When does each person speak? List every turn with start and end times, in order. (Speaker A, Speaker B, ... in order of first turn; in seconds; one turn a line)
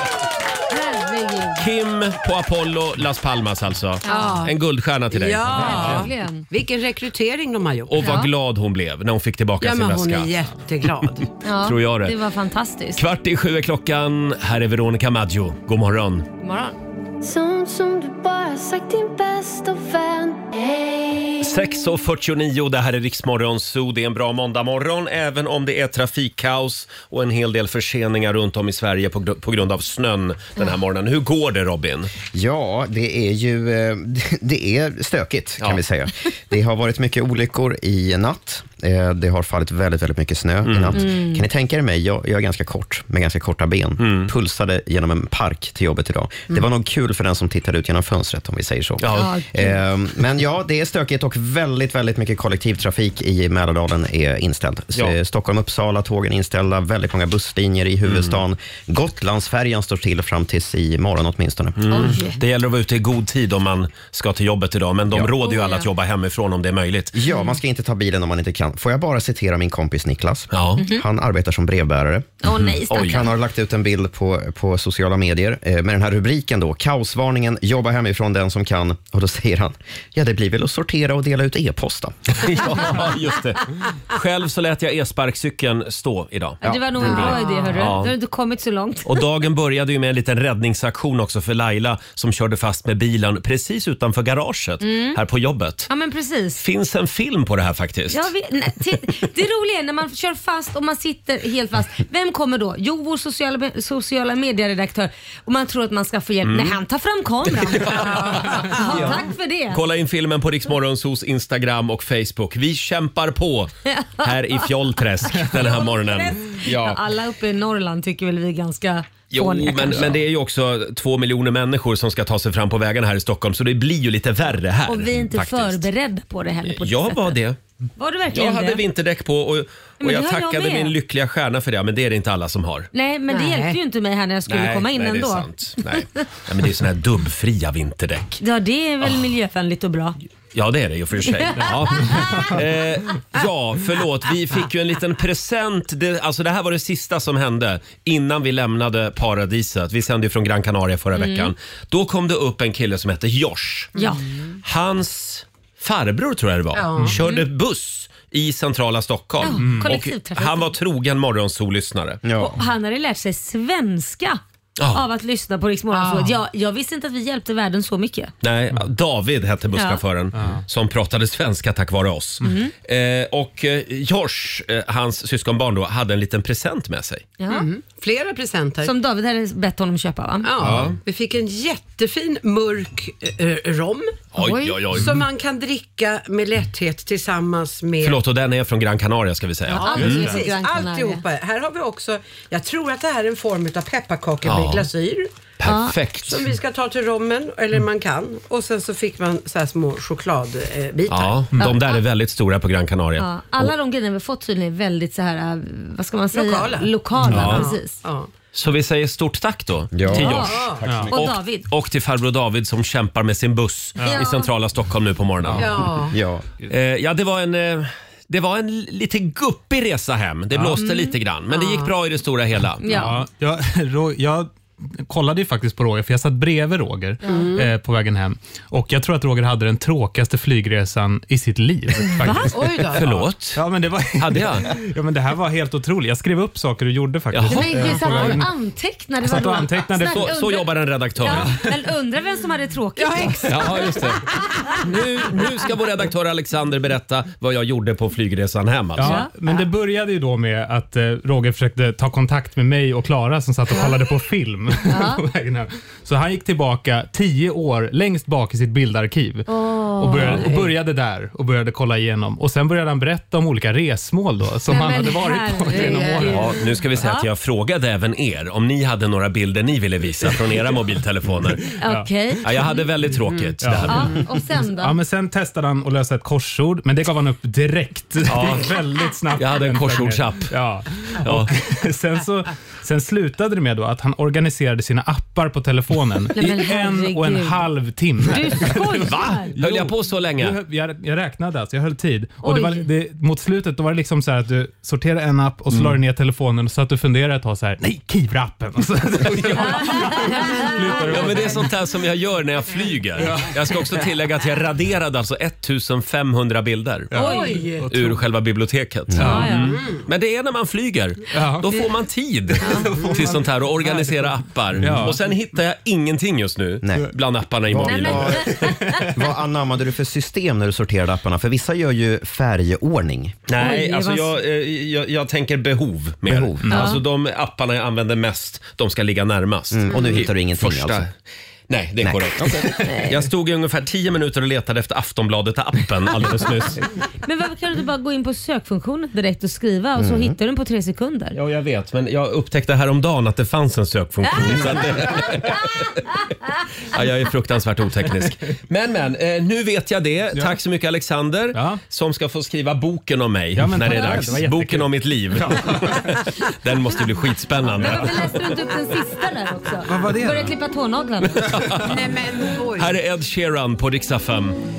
Speaker A: 0.7-1.7
Speaker B: 1.6-6.1
Speaker A: 4.0-4.4
Speaker C: 4.0-4.5
Speaker C: 5.1-8.2
Speaker A: 5.5-6.4
Speaker B: 7.9-10.3
Speaker A: 8.0-8.3
Speaker C: 9.6-11.3
Speaker A: 11.4-13.0
Speaker B: 11.5-12.2
Speaker B: 12.9-16.3
Speaker A: 16.4-16.8
Speaker D: 17.2-21.5
Speaker B: 21.4-32.1
Speaker E: 32.3-62.1
Speaker B: 40.6-41.0
Speaker A: 40.9-41.4
Speaker B: 44.0-44.3
Speaker B: 49.0-49.3
Speaker A: 49.1-49.8
Speaker B: 58.0-58.4
Speaker B: 61.8-67.2
Speaker A: 61.9-62.4
Speaker A: 65.4-65.9
Speaker E: 67.1-72.3
Speaker B: 70.5-70.8
Speaker A: 70.8-71.0
Speaker A: 72.4-73.3
Speaker B: 72.6-73.2
Speaker E: 72.9-83.0
Speaker B: 82.4-88.1
Speaker E: 86.6-87.4
Speaker A: 86.6-89.2
Speaker C: 87.1-87.9
Speaker B: 89.0-95.9
Speaker A: 94.8-95.2
Speaker A: 95.9-96.6
Speaker B: 96.6-98.3
Speaker A: 98.1-109.8
Speaker B: 106.4-106.8
Speaker B: 107.5-117.0
Speaker C: 107.9-109.2
Speaker A: 113.8-114.7
Speaker A: 115.3-120.1
Speaker B: 119.3-125.9
Speaker A: 124.8-127.3
Speaker B: 126.7-127.6
Speaker A: 128.0-128.8
Speaker B: 128.3-132.9
Speaker A: 130.0-130.9
Speaker A: 132.9-136.0
Speaker C: 133.3-133.8
Speaker B: 134.5-138.4
Speaker A: 138.4-140.2
Speaker B: 140.5-153.9
Speaker A: 141.3-142.6
Speaker F: 141.6-142.6
Speaker A: 151.1-151.5
Speaker A: 153.9-154.3
Speaker C: 154.0-154.5
Speaker B: 154.6-162.2
Speaker C: 156.7-157.2
Speaker A: 157.2-157.4
Speaker A: 159.4-160.7
Speaker F: 159.6-159.9
Speaker E: 162.2-162.6
Speaker A: 162.4-164.4
Speaker B: 164.8-165.0
Speaker A: 164.9-168.3
Speaker C: 165.9-166.4
Speaker B: 168.4-177.3
Speaker A: 169.7-170.0
Speaker F: 170.3-170.6
Speaker A: 172.4-172.7
Speaker A: 177.4-177.7
Speaker C: 177.5-178.9
Speaker A: 178.8-180.5
Speaker C: 180.4-184.2
Speaker B: 180.6-180.9
Speaker B: 184.3-185.2
Speaker A: 184.4-184.8
Speaker C: 184.9-188.2
Speaker B: 188.0-190.3
Speaker A: 189.7-191.2
Speaker C: 189.7-195.3
Speaker B: 194.4-194.9
Speaker B: 195.6-196.4
Speaker A: 195.6-195.9
Speaker C: 196.2-201.4
Speaker B: 201.1-203.7
Speaker A: 201.6-202.0
Speaker A: 203.2-208.0
Speaker C: 206.3-208.3
Speaker B: 207.2-207.7
Speaker F: 207.3-207.5
Speaker B: 208.5-215.8
Speaker E: 209.9-211.1
Speaker A: 210.1-211.6
Speaker C: 210.2-211.0
Speaker F: 210.8-211.1
Speaker F: 214.0-214.2
Speaker A: 214.0-214.5
Speaker F: 215.5-215.8
Speaker C: 215.6-216.2
Speaker E: 216.1-216.4
Speaker B: 216.7-222.8
Speaker F: 220.5-220.8
Speaker A: 220.8-221.1
Speaker C: 221.5-221.9
Speaker A: 222.8-223.2
Speaker F: 222.9-238.5
Speaker C: 227.2-227.7
Speaker A: 232.1-232.5
Speaker C: 232.5-233.1
Speaker B: 232.9-233.6
Speaker B: 234.2-234.7
Speaker B: 237.3-238.3
Speaker A: 237.5-244.8
Speaker F: 239.2-240.3
Speaker B: 240.1-241.5
Speaker F: 241.3-241.7
Speaker C: 243.0-244.1
Speaker B: 243.4-244.3
Speaker B: 244.8-249.2
Speaker F: 248.9-266.6
Speaker A: 249.0-249.3
Speaker A: 254.9-255.2
Speaker A: 259.5-260.5
Speaker C: 260.1-260.7
Speaker A: 264.7-267.3
Speaker C: 265.7-266.4
Speaker B: 266.3-271.7
Speaker A: 271.8-272.8
Speaker F: 271.8-272.1
Speaker B: 272.4-274.2
Speaker F: 273.6-301.7
Speaker A: 273.9-274.9
Speaker B: 278.3-278.7
Speaker B: 279.4-280.5
Speaker B: 281.2-281.5
Speaker A: 286.4-287.6
Speaker A: 288.2-289.5
Speaker B: 289.1-290.6
Speaker A: 292.4-292.8
Speaker B: 299.3-300.1
Speaker A: 299.6-301.4
Speaker B: 301.1-307.1
Speaker F: 303.1-304.1
Speaker F: 307.1-308.2
Speaker A: 307.1-307.6
Speaker C: 307.1-307.9
Speaker B: 307.9-318.5
Speaker F: 309.1-309.8
Speaker A: 309.2-309.8
Speaker C: 309.8-310.0
Speaker F: 311.3-311.8
Speaker A: 312.6-312.9
Speaker F: 312.6-315.2
Speaker E: 316.8-317.1
Speaker E: 317.7-323.4
Speaker A: 317.8-319.0
Speaker F: 318.6-319.1
Speaker B: 323.5-331.1
Speaker A: 323.6-324.3
Speaker E: 326.3-326.8
Speaker F: 326.6-326.9
Speaker A: 326.7-327.0
Speaker E: 329.7-331.1
Speaker B: 331.7-336.9
Speaker E: 332.0-332.7
Speaker A: 332.8-333.1
Speaker A: 337.2-341.4
Speaker E: 340.0-340.4
Speaker B: 341.3-346.0
Speaker B: 346.9-358.3
Speaker F: 351.5-351.8
Speaker F: 353.5-356.2
Speaker A: 353.9-354.2
Speaker A: 357.6-361.6
Speaker F: 357.8-358.3
Speaker F: 359.8-360.6
Speaker B: 361.3-362.0
Speaker C: 361.7-363.0
Speaker B: 362.7-364.6